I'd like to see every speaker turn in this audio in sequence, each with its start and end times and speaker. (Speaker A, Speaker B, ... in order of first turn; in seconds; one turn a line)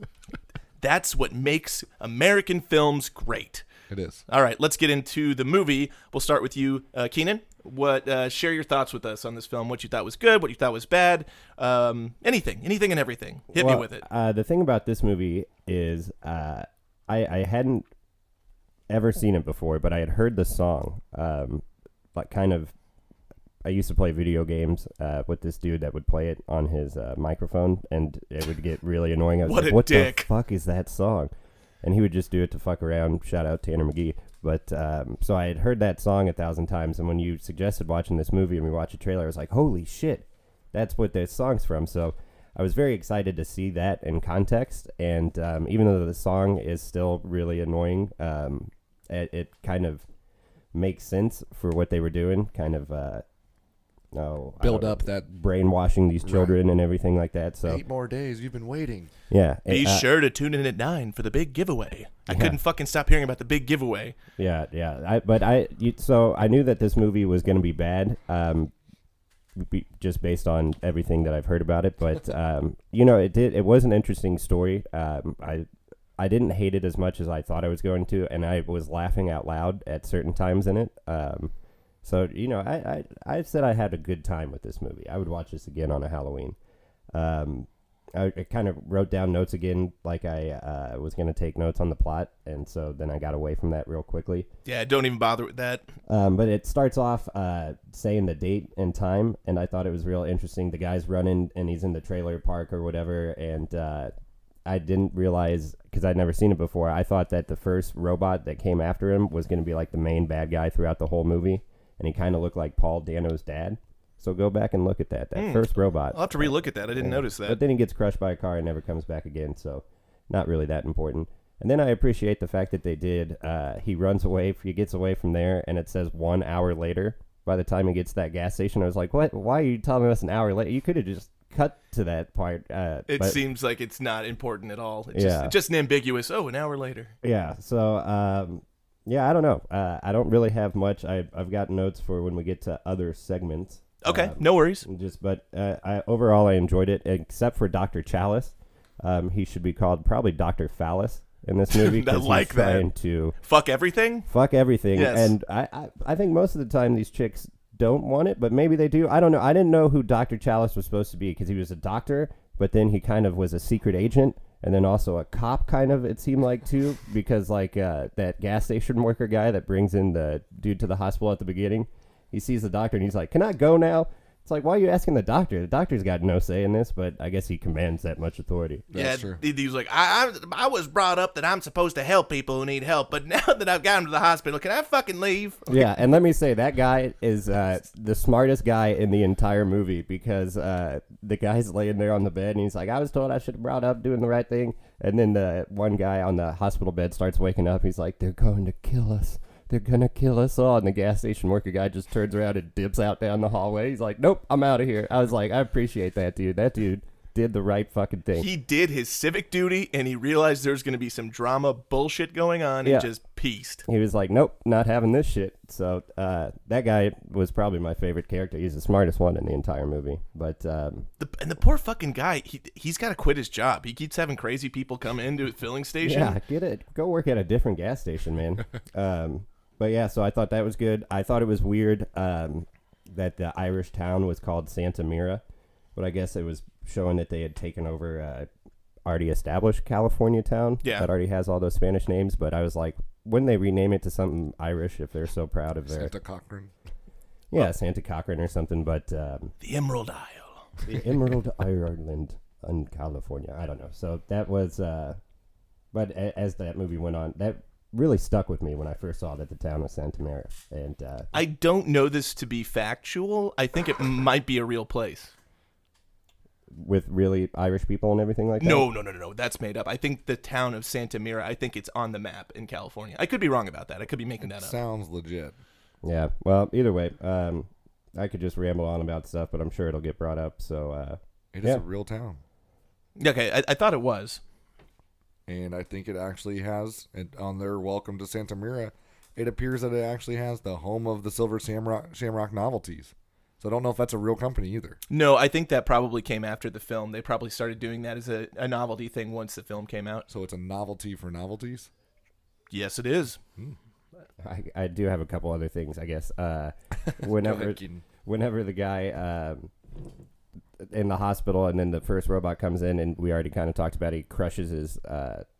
Speaker A: 0.8-3.6
Speaker B: 3.9-4.2
Speaker A: 4.3-14.0
Speaker C: 13.5-17.9
Speaker C: 18.9-21.6
Speaker C: 22.1-22.7
Speaker C: 23.6-31.3
Speaker A: 29.4-30.3
Speaker C: 31.8-50.0
Speaker C: 50.7-53.2
Speaker C: 54.1-57.8
Speaker B: 54.6-55.3
Speaker B: 56.2-56.5
Speaker B: 57.6-59.1
Speaker C: 59.3-60.0
Speaker A: 59.7-64.2
Speaker C: 62.3-62.6
Speaker C: 64.4-68.7
Speaker C: 69.5-75.7
Speaker C: 76.2-81.5
Speaker C: 82.0-86.6
Speaker C: 87.1-94.5
Speaker A: 94.7-95.9
Speaker C: 96.1-104.1
Speaker C: 104.7-133.4
Speaker A: 115.3-117.6
Speaker A: 133.1-137.1
Speaker C: 135.1-135.5
Speaker C: 137.2-153.3
Speaker A: 144.0-144.8
Speaker A: 151.7-152.9
Speaker A: 153.4-154.3
Speaker C: 154.3-178.9
Speaker A: 154.9-155.3
Speaker B: 178.9-179.4
Speaker A: 178.9-185.9
Speaker C: 185.7-208.5
Speaker A: 208.3-213.8
Speaker C: 212.8-213.1
Speaker C: 213.8-221.1
Speaker A: 221.2-226.4
Speaker C: 226.0-235.4
Speaker C: 235.9-238.5
Speaker C: 239.1-246.1
Speaker A: 240.8-241.1
Speaker B: 245.9-246.7
Speaker C: 247.5-249.5
Speaker A: 249.6-250.7
Speaker C: 250.8-255.2
Speaker C: 255.9-261.3
Speaker A: 261.3-265.3
Speaker C: 266.7-268.9
Speaker A: 268.6-274.7
Speaker B: 274.4-275.6
Speaker C: 276.0-281.8
Speaker B: 281.5-282.4
Speaker A: 283.2-284.4
Speaker B: 285.5-295.0
Speaker A: 295.1-300.2
Speaker B: 300.3-301.9
Speaker A: 302.7-303.4
Speaker C: 304.4-309.7
Speaker B: 307.1-308.0
Speaker C: 310.8-315.4